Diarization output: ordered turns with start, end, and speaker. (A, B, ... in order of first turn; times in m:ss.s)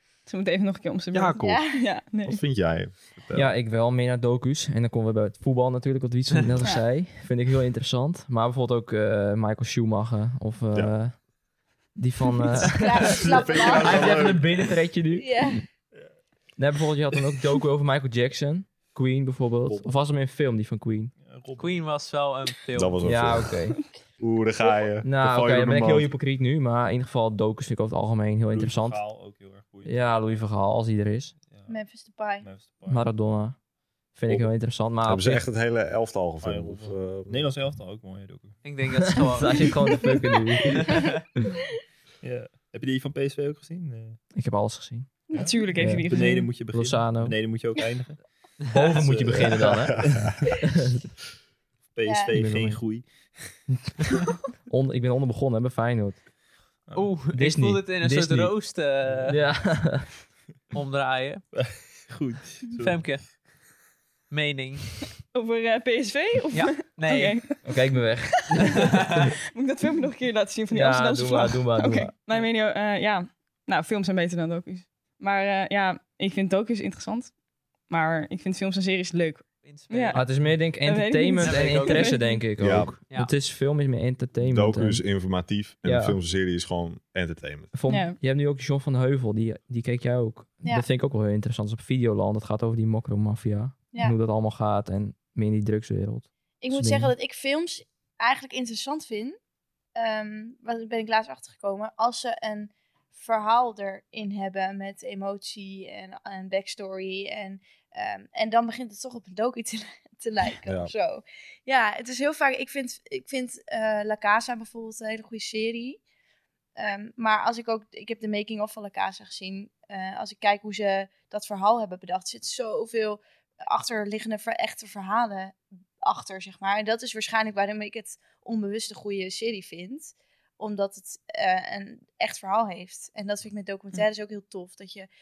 0:00.3-0:02.4 A
0:01.1-0:01.7 B
0:01.4-0:01.8 C
0:02.2-0:03.5 B
0:03.3-0:11.3 D
0:11.9-0:15.7 D
0:12.7-0:14.2 C
0:13.1-0:14.7 B
0:13.8-0:14.4 E
0:15.2-0:15.6 C
0:16.6-0:21.1 D
0:19.7-0:19.9 B
0:21.2-0:21.8 F
0:21.6-0:23.1 E
0:22.8-0:23.6 B
0:23.0-0:23.8 D
0:24.2-0:26.1 B
0:25.0-0:29.0 D
0:28.5-0:30.4 F
0:29.9-0:31.4 D
0:31.4-0:31.8 F
0:31.7-0:32.5 C
0:32.4-0:33.1 F
0:32.9-0:33.6 D
0:34.1-0:35.4 D
0:35.0-0:37.5 B
0:36.4-0:38.6 F
0:38.6-0:39.8 E
0:39.1-0:41.2 D
0:40.8-0:41.2 E
0:42.2-0:44.2 F
0:44.3-0:47.4 D
0:45.3-0:45.6 C
0:45.3-0:50.4 F
0:45.4-0:46.6 A
0:48.7-0:51.0 D
0:49.3-0:50.4 B
0:51.9-0:53.6 F
0:52.0-0:52.3 C
0:52.3-0:52.8 D
0:54.6-0:56.2 D
0:56.9-0:57.2 F
0:56.9-0:59.4 E
0:57.3-0:58.6 D
0:59.3-1:00.2 D
1:00.7-1:01.4 E
1:01.5-1:03.3 F
1:02.8-1:03.4 E
1:04.3-1:04.9 E
1:05.2-1:08.8 A
1:06.5-1:07.4 E
1:07.6-1:08.9 D
1:08.6-1:09.2 E
1:09.5-1:17.3 A
1:10.7-1:12.1 D
1:17.9-1:22.5 A
1:19.6-1:20.6 E
1:20.2-1:25.0 D
1:21.4-1:23.3 E
1:22.6-1:22.9 B
1:24.4-1:27.7 B
1:25.8-1:26.2 D
1:27.7-1:37.1 D
1:27.9-1:28.2 A
1:36.6-1:39.4 C
1:40.0-1:56.0 C
1:50.7-1:50.9 B
1:56.8-2:15.1 C